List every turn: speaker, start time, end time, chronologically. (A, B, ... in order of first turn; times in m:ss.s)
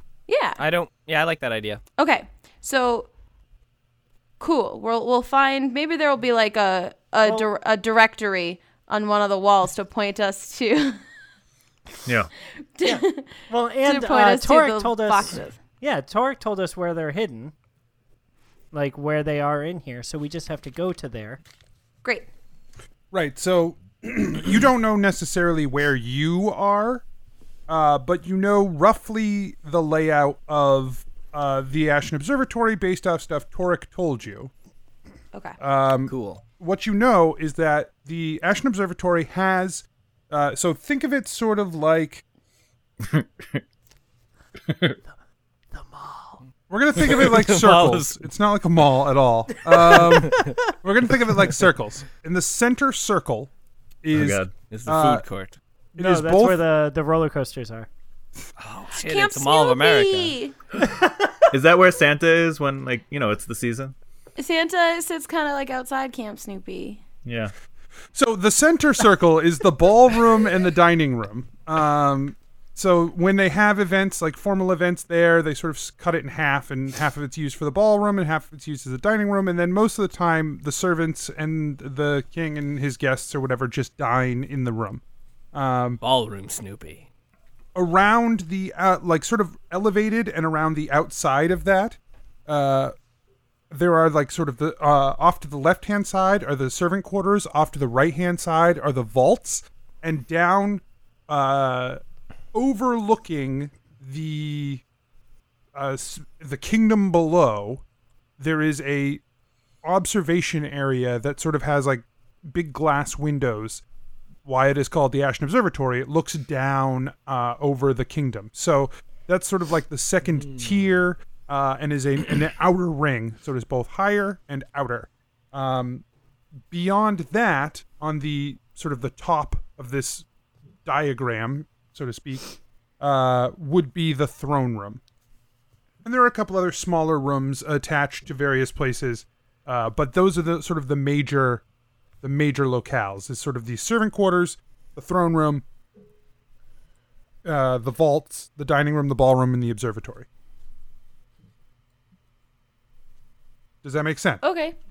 0:00.3-0:00.6 A
0:00.6-0:01.8 B
0:02.0-0:03.1 A
0:04.4-0:11.0 A
0:07.2-0:07.5 C
0:12.8-0:15.6 A
0:12.8-0:17.5 C
0:18.7-0:21.4 C
0:23.1-0:27.0 D
0:27.7-0:34.5 D
0:35.6-0:42.2 D
0:36.1-0:36.4 B
0:43.0-0:43.6 E
0:44.7-0:45.0 E
0:45.7-0:46.4 C
0:46.7-0:53.5 D
0:47.0-0:48.2 B
0:49.7-0:50.6 C
0:49.9-0:50.6 B
0:54.0-0:55.2 D
0:54.1-0:54.5 E
0:54.7-0:55.6 B
0:56.0-0:57.9 C
0:56.0-0:56.6 D
0:58.6-1:00.4 B
0:59.0-1:00.6 A
1:01.5-1:03.9 E
1:04.4-1:07.0 A
1:07.2-1:07.5 E
1:08.1-1:26.0 D
1:26.0-1:27.1 B
1:27.8-1:32.9 D
1:33.7-1:42.0 D
1:42.5-1:44.8 D
1:45.8-1:47.8 D
1:48.4-1:49.2 D
1:49.8-1:53.8 D
1:54.4-2:06.0 D
2:06.7-2:10.3 D
2:10.8-2:15.0 D
2:16.0-2:21.6 D
2:22.2-2:25.6 D
2:27.4-2:30.3 D
2:33.8-2:34.4 D
2:34.4-2:34.8 A